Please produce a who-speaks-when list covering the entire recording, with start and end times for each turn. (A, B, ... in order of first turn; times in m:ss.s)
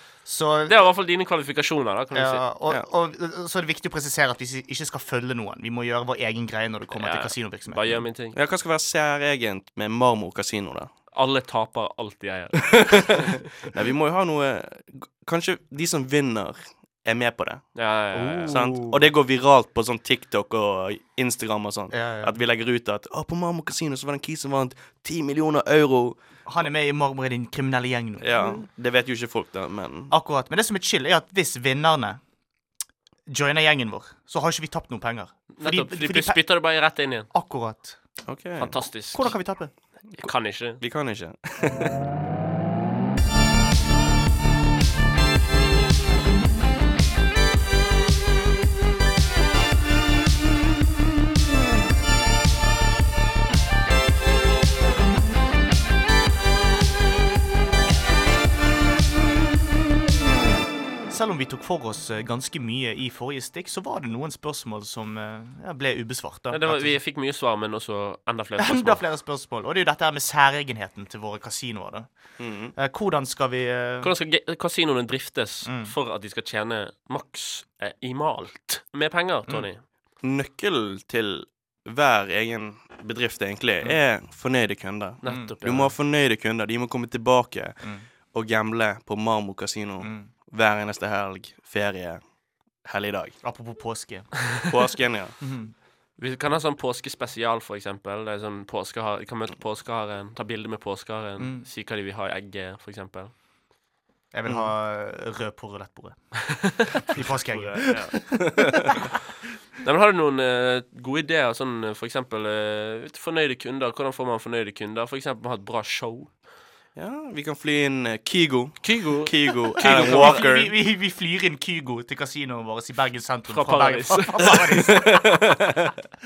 0:00.2-0:00.9 A
0:00.7-0:02.4 B
0:02.1-0:08.0 A
0:06.9-0:08.4 B
0:08.3-0:10.9 C
0:11.1-0:13.3 B
0:12.7-0:17.7 C
0:17.7-0:18.5 B
0:18.1-0:19.1 A
0:18.5-0:26.2 C
0:21.9-0:22.4 A
0:26.4-0:28.5 A
0:28.2-0:30.1 C
0:30.1-0:32.2 A
0:33.2-0:36.4 A
0:35.5-0:37.3 B
0:37.3-0:38.0 A
0:38.2-0:38.8 C
0:38.6-0:39.4 B
0:39.1-0:39.7 A
0:40.2-0:42.0 C
0:40.2-0:40.8 B
1:01.1-1:07.0 A
1:06.5-1:09.0 B
1:08.6-1:12.1 A
1:12.4-1:12.7 C
1:12.7-1:14.1 A
1:14.0-1:19.8 B
1:15.6-1:15.9 A
1:20.2-1:32.2 C
1:25.2-1:25.9 B
1:25.2-1:25.5 A
1:30.0-1:30.3 A
1:32.8-1:33.4 C
1:33.4-1:34.4 A
1:34.7-1:35.4 C
1:35.4-1:35.7 A
1:36.2-1:43.3 B
1:41.4-1:41.6 A
1:44.3-1:49.0 A
1:44.4-1:44.7 C
1:47.5-1:48.2 B
1:48.5-1:48.8 C
1:49.8-1:56.3 B
1:57.0-2:00.7 C
1:58.8-2:00.4 B
1:59.8-2:05.4 A
2:03.5-2:04.6 B
2:04.4-2:05.9 C